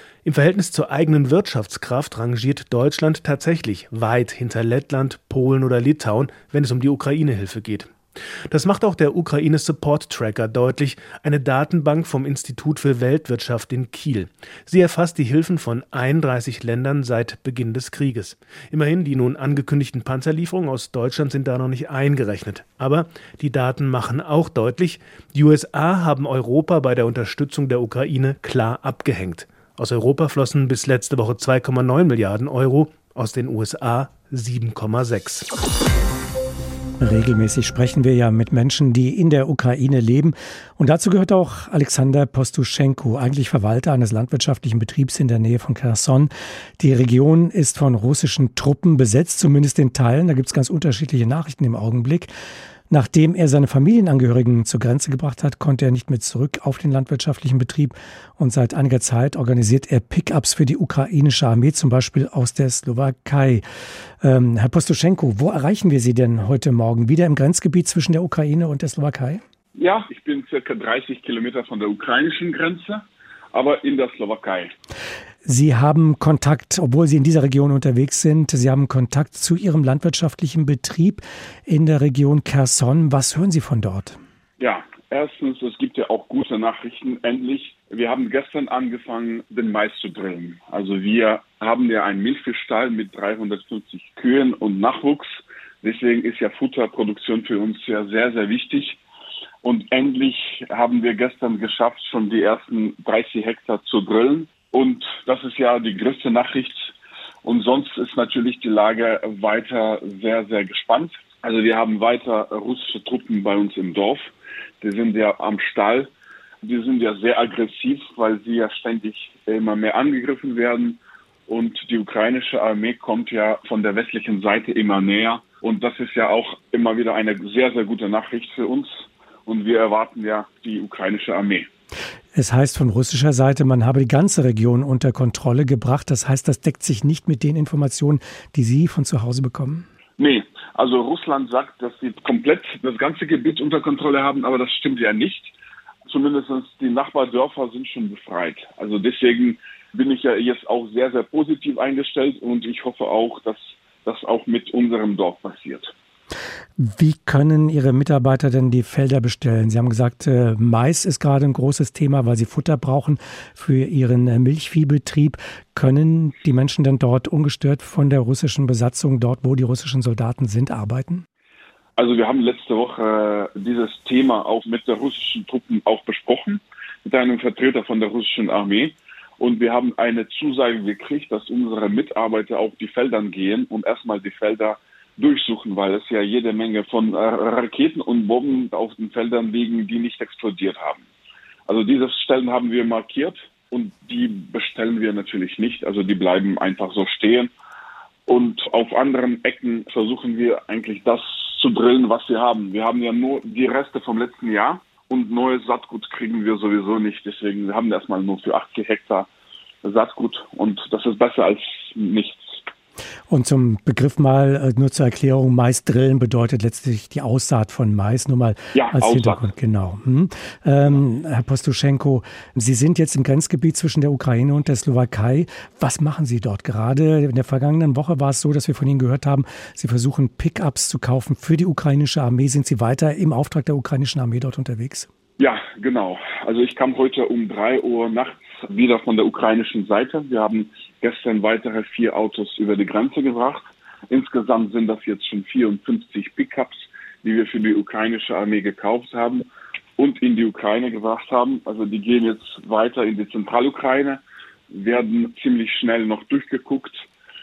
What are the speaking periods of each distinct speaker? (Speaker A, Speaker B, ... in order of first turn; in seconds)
Speaker A: 0.2-7.9, 8.5-35.5
Speaker B: 37.0-52.3, 52.9-63.6, 64.2-69.4, 75.5-84.2, 132.3-139.9, 156.8-171.2, 213.3-235.1
Speaker C: 69.8-74.7, 84.6-99.0, 99.6-106.9, 107.4-116.1, 116.6-131.7, 140.2-145.5, 146.1-155.9, 172.0-191.0, 191.7-197.5, 198.3-209.3, 209.8-212.6, 218.7-219.5, 235.4-249.5, 250.0-257.1